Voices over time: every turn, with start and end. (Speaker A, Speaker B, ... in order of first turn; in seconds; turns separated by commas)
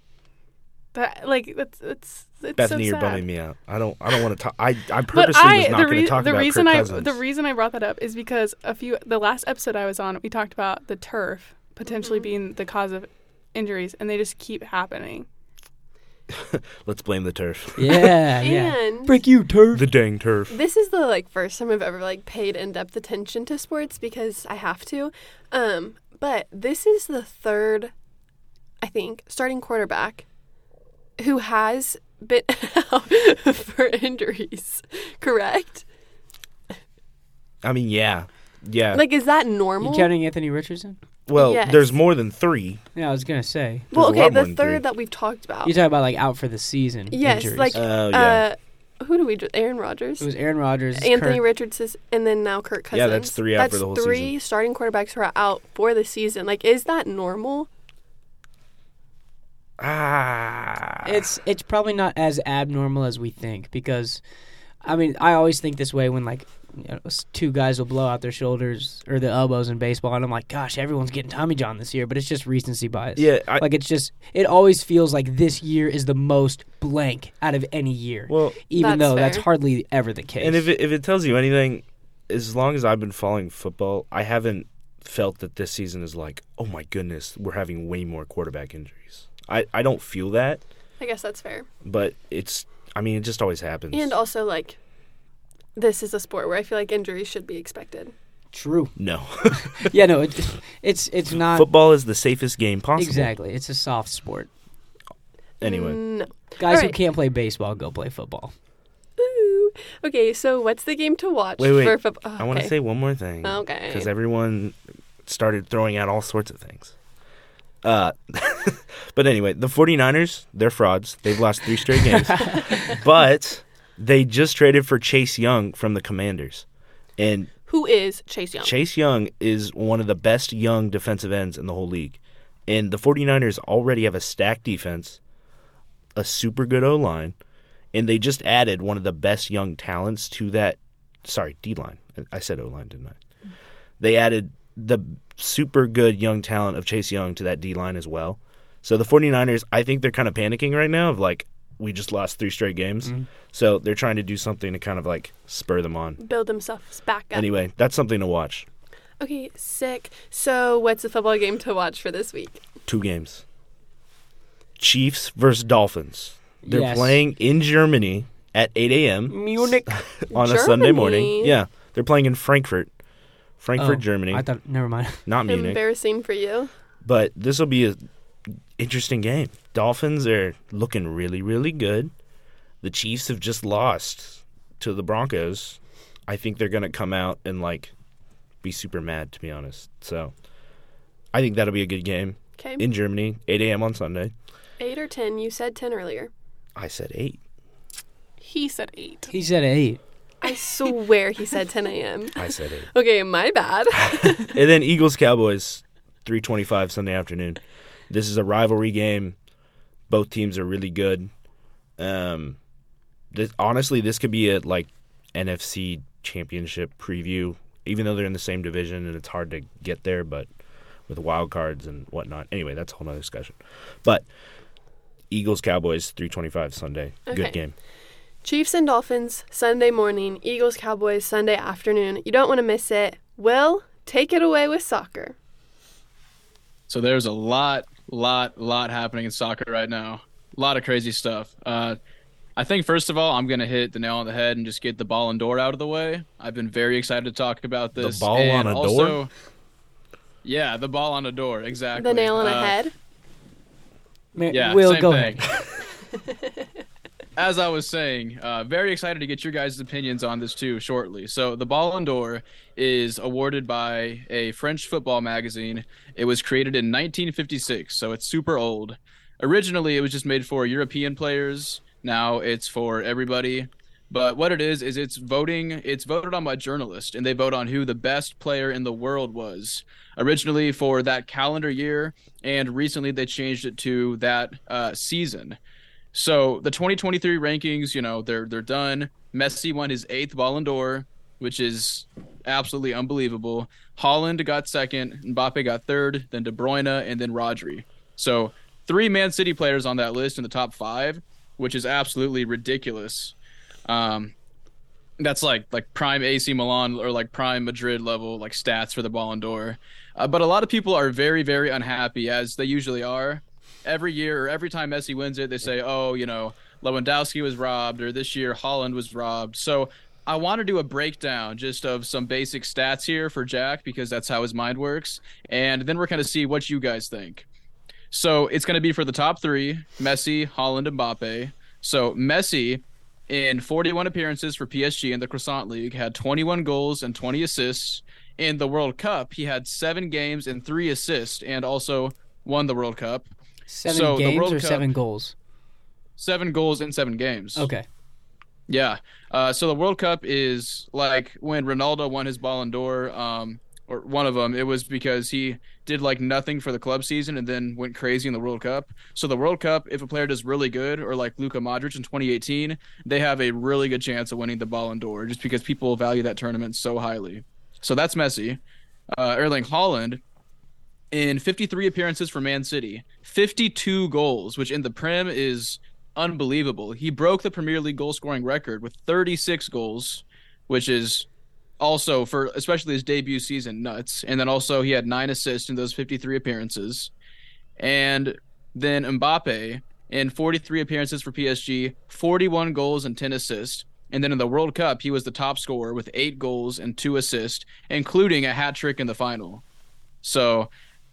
Speaker A: 0.9-3.2, Speaker B: 2.6-7.2, Speaker A: 5.1-15.3, Speaker C: 11.8-12.3, Speaker B: 16.3-18.1, Speaker D: 17.8-19.9, Speaker C: 18.4-19.1, Speaker B: 19.7-20.6, Speaker C: 20.5-27.9, Speaker C: 28.8-30.2, Speaker C: 31.2-35.8, Speaker B: 37.6-39.0, Speaker C: 38.9-40.1, Speaker D: 39.8-41.0, Speaker B: 41.3-42.8, Speaker C: 41.3-42.0, Speaker D: 42.9-43.9, Speaker B: 43.9-44.8, Speaker C: 43.9-45.7, Speaker D: 45.6-47.8, Speaker C: 47.1-50.3, Speaker B: 47.7-48.4, Speaker D: 50.2-51.4, Speaker C: 50.9-57.7, Speaker B: 52.9-54.3, Speaker B: 59.8-61.1, Speaker D: 61.0-64.2, Speaker D: 64.8-80.7, Speaker B: 73.2-73.6, Speaker B: 78.3-78.6, Speaker C: 78.7-79.5, Speaker B: 80.4-90.6, Speaker C: 91.0-91.7, Speaker B: 91.8-94.2, Speaker C: 93.9-94.8, Speaker C: 95.8-98.1, Speaker D: 98.5-98.9, Speaker B: 99.0-99.9, Speaker D: 99.5-101.7, Speaker B: 101.4-103.3, Speaker D: 103.0-104.5, Speaker C: 105.6-107.0, Speaker B: 105.6-106.0, Speaker D: 106.6-108.5, Speaker C: 109.2-112.7, Speaker B: 111.6-116.9, Speaker C: 113.4-114.1, Speaker B: 117.8-126.6, Speaker B: 127.2-127.5, Speaker C: 127.7-128.7, Speaker B: 128.6-135.2, Speaker B: 136.1-137.3, Speaker B: 137.9-143.2, Speaker B: 144.0-156.2, Speaker C: 156.2-157.5, Speaker B: 157.3-158.7, Speaker C: 159.2-162.6, Speaker B: 162.9-163.4, Speaker B: 164.8-172.9, Speaker D: 166.6-167.2, Speaker D: 169.3-170.0, Speaker C: 170.3-171.5, Speaker B: 173.6-174.4, Speaker D: 173.8-175.2, Speaker B: 175.2-175.8, Speaker C: 175.5-176.7, Speaker B: 177.0-178.0, Speaker B: 178.8-182.1, Speaker B: 182.8-187.9, Speaker B: 188.6-190.3, Speaker B: 191.3-194.3, Speaker C: 192.6-192.8, Speaker C: 194.8-196.3, Speaker B: 196.8-197.4, Speaker A: 198.4-199.3, Speaker D: 199.3-200.0, Speaker C: 200.4-204.6, Speaker B: 202.4-202.9, Speaker B: 204.1-207.6, Speaker B: 208.1-209.3, Speaker B: 210.1-211.3, Speaker B: 212.0-212.6, Speaker B: 213.3-220.5, Speaker B: 221.1-224.3, Speaker B: 225.3-227.7, Speaker C: 227.3-227.6, Speaker C: 228.4-235.3, Speaker E: 236.9-242.0, Speaker E: 242.6-249.3, Speaker B: 247.9-249.2, Speaker E: 250.4-252.8, Speaker C: 251.9-252.9, Speaker D: 254.3-255.4, Speaker E: 254.5-255.5, Speaker E: 257.4-285.6, Speaker E: 286.1-303.3, Speaker E: 303.9-304.3, Speaker E: 305.2-327.4, Speaker E: 328.1-343.3, Speaker D: 343.7-345.3, Speaker E: 343.8-344.8, Speaker E: 346.2-347.7, Speaker D: 347.5-347.8, Speaker E: 348.7-368.6, Speaker E: 369.1-370.2, Speaker E: 371.1-381.3, Speaker E: 381.8-387.1, Speaker E: 387.8-399.6, Speaker E: 400.2-400.7